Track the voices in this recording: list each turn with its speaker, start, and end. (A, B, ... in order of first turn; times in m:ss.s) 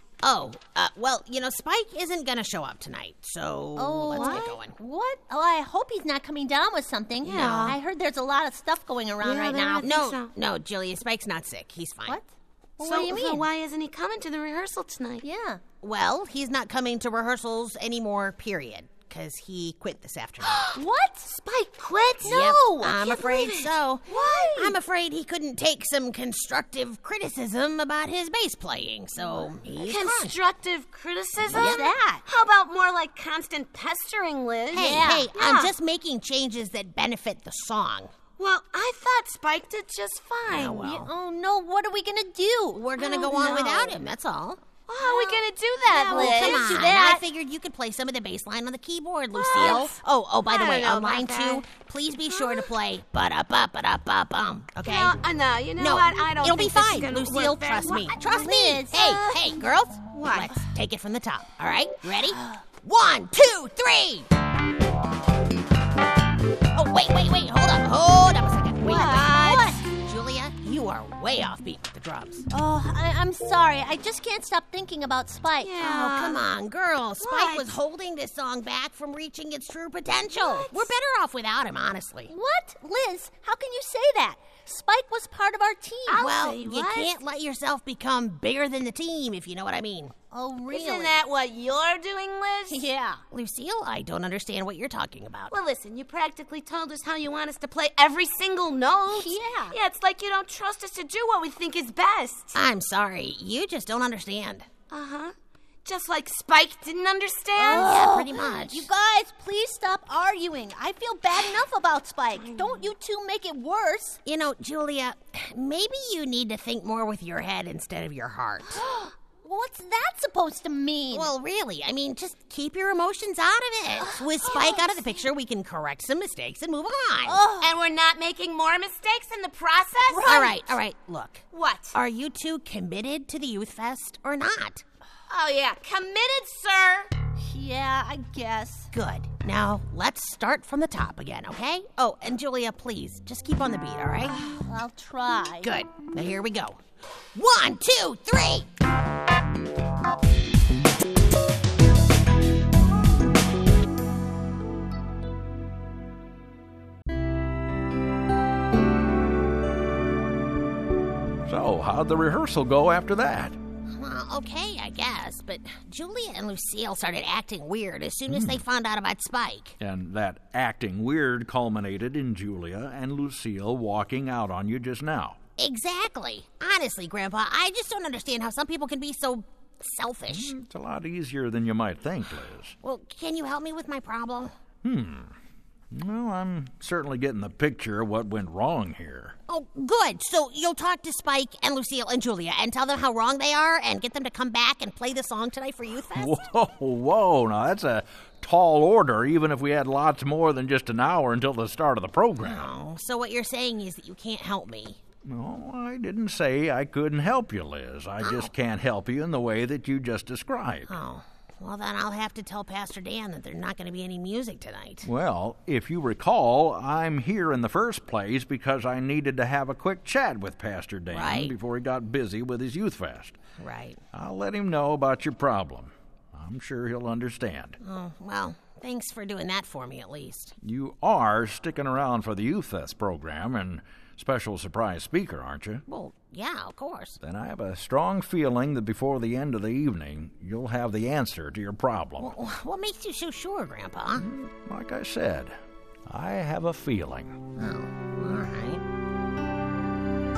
0:00.2-0:04.8 A
0:03.8-0:09.9 B
0:04.1-0:04.5 C
0:07.2-0:07.8 C
0:07.4-0:07.7 A
0:09.2-0:10.3 C
0:09.8-0:12.2 A
0:12.1-0:13.5 B
0:12.8-0:15.2 C
0:15.2-0:15.6 B
0:15.8-0:20.7 A
0:20.4-0:20.8 C
0:20.7-0:21.7 B
0:21.5-0:23.7 C
0:22.2-0:30.4 A
0:22.2-0:23.2 B
0:24.1-0:24.8 B
0:29.8-0:35.7 C
0:31.5-0:31.9 A
0:31.5-0:32.2 B
0:34.7-0:38.1 A
0:34.8-0:35.3 B
0:38.4-0:40.9 C
0:40.5-0:41.1 A
0:40.8-0:42.8 B
0:42.8-0:44.6 A
0:43.0-0:44.0 C
0:44.9-0:47.0 C
0:45.0-0:47.2 B
0:46.1-0:55.2 A
0:49.4-0:51.6 C
0:49.6-0:49.9 B
0:52.3-0:52.6 C
0:54.8-0:58.2 C
0:55.8-1:04.3 A
0:58.3-0:59.5 B
1:00.1-1:00.5 C
1:06.7-1:12.5 A
1:08.8-1:09.8 C
1:12.5-1:15.8 B
1:15.6-1:16.4 C
1:15.8-1:22.3 A
1:17.2-1:17.8 C
1:20.4-1:20.9 C
1:22.3-1:26.2 B
1:26.1-1:27.2 C
1:26.2-1:30.1 A
1:30.3-1:31.2 B
1:30.7-1:32.8 C
1:32.7-1:33.2 B
1:33.3-1:35.5 A
1:35.5-1:42.6 C
1:39.1-1:39.8 B
1:42.6-1:44.7 A
1:44.9-1:45.3 C
1:45.8-1:48.1 C
1:47.6-1:54.2 B
1:47.6-1:48.9 A
1:52.4-1:52.9 C
1:54.2-1:58.8 A
1:58.8-2:01.3 B
2:01.1-2:07.4 A
2:07.2-2:07.7 B
2:07.6-2:10.5 C
2:10.1-2:10.6 B
2:10.2-2:14.8 A
2:11.5-2:12.0 C
2:15.3-2:17.1 C
2:17.4-2:18.9 B
2:18.9-2:24.4 A
2:24.3-2:25.7 B
2:25.6-2:26.8 A
2:27.4-2:28.7 A
2:41.4-2:43.6 D
2:43.9-2:49.8 A
2:48.3-2:48.6 D
2:49.8-2:55.4 D
2:55.6-3:00.5 A
3:00.3-3:02.8 D
3:02.8-3:04.6 A
3:04.8-3:05.4 D
3:05.9-3:09.4 D
3:09.5-3:16.5 A
3:16.2-3:22.7 D
3:22.4-3:25.0 A
3:25.2-3:31.0 D
3:28.2-3:28.5 A
3:30.9-3:35.1 A
3:35.0-3:43.4 D
3:41.1-3:41.5 A
3:43.6-3:44.0 A
3:44.1-3:47.8 D
3:47.8-3:50.6 A
3:50.6-3:55.8 D
3:55.9-3:57.2 A
3:57.2-4:02.4 D
4:02.2-4:04.3 A
4:04.2-4:05.6 D
4:06.1-4:07.4 D
4:07.6-4:08.8 A